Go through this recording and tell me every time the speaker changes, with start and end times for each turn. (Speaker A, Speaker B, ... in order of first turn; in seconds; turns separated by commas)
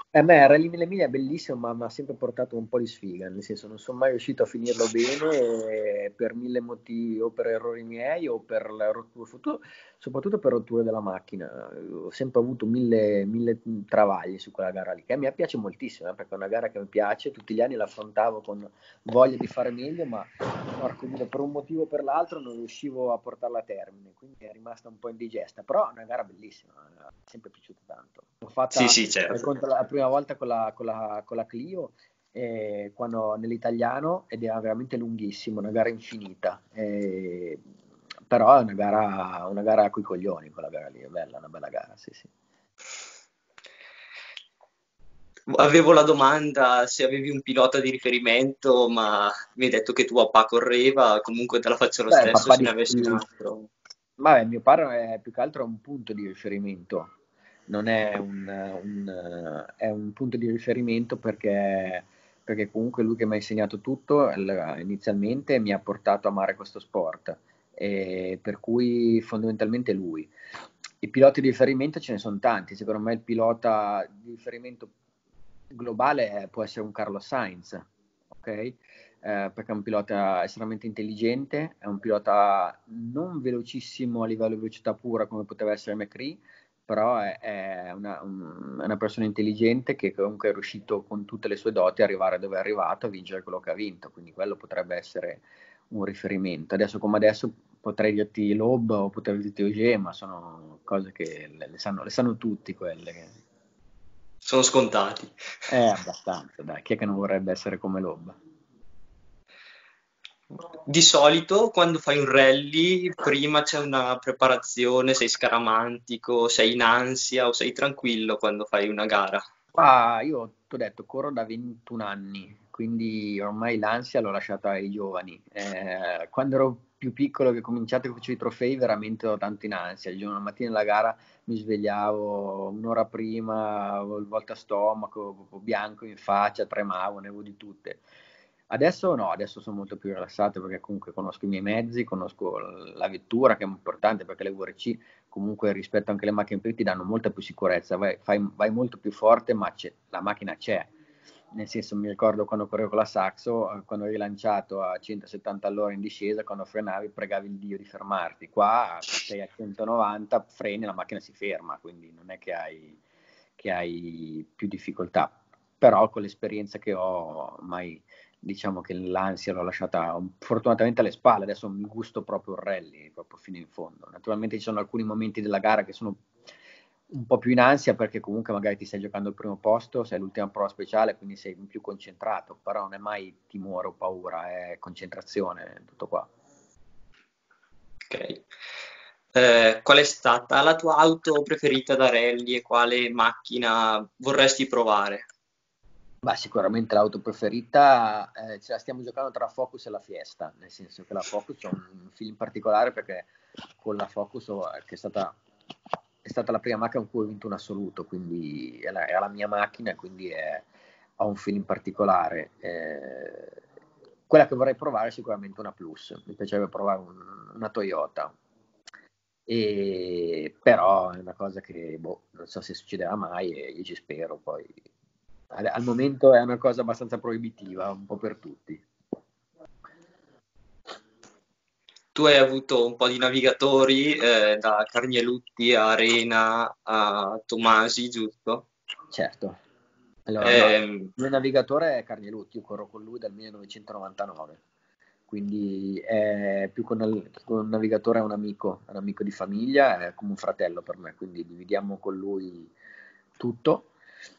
Speaker A: 0.1-37.6, Speaker B: 28.7-29.4, Speaker A: 38.3-42.3, Speaker B: 45.5-53.7, Speaker A: 52.1-53.2, Speaker A: 54.2-57.1, Speaker A: 57.7-70.3, Speaker A: 71.0-74.9, Speaker A: 75.7-103.3, Speaker B: 104.4-105.3, Speaker A: 105.7-108.4, Speaker B: 110.8-119.4, Speaker A: 119.7-138.0, Speaker A: 138.7-150.9, Speaker A: 151.5-163.0, Speaker A: 163.6-176.2, Speaker A: 177.1-186.3, Speaker B: 188.1-188.4, Speaker B: 189.3-195.2, Speaker A: 196.2-203.3, Speaker A: 203.8-205.4, Speaker A: 206.2-210.7, Speaker A: 211.2-213.6, Speaker A: 214.3-218.3, Speaker A: 219.5-224.8, Speaker A: 225.5-228.8, Speaker B: 232.1-238.7, Speaker A: 239.1-239.6, Speaker A: 240.3-244.6, Speaker B: 240.4-241.1, Speaker A: 245.3-252.7, Speaker A: 253.4-253.9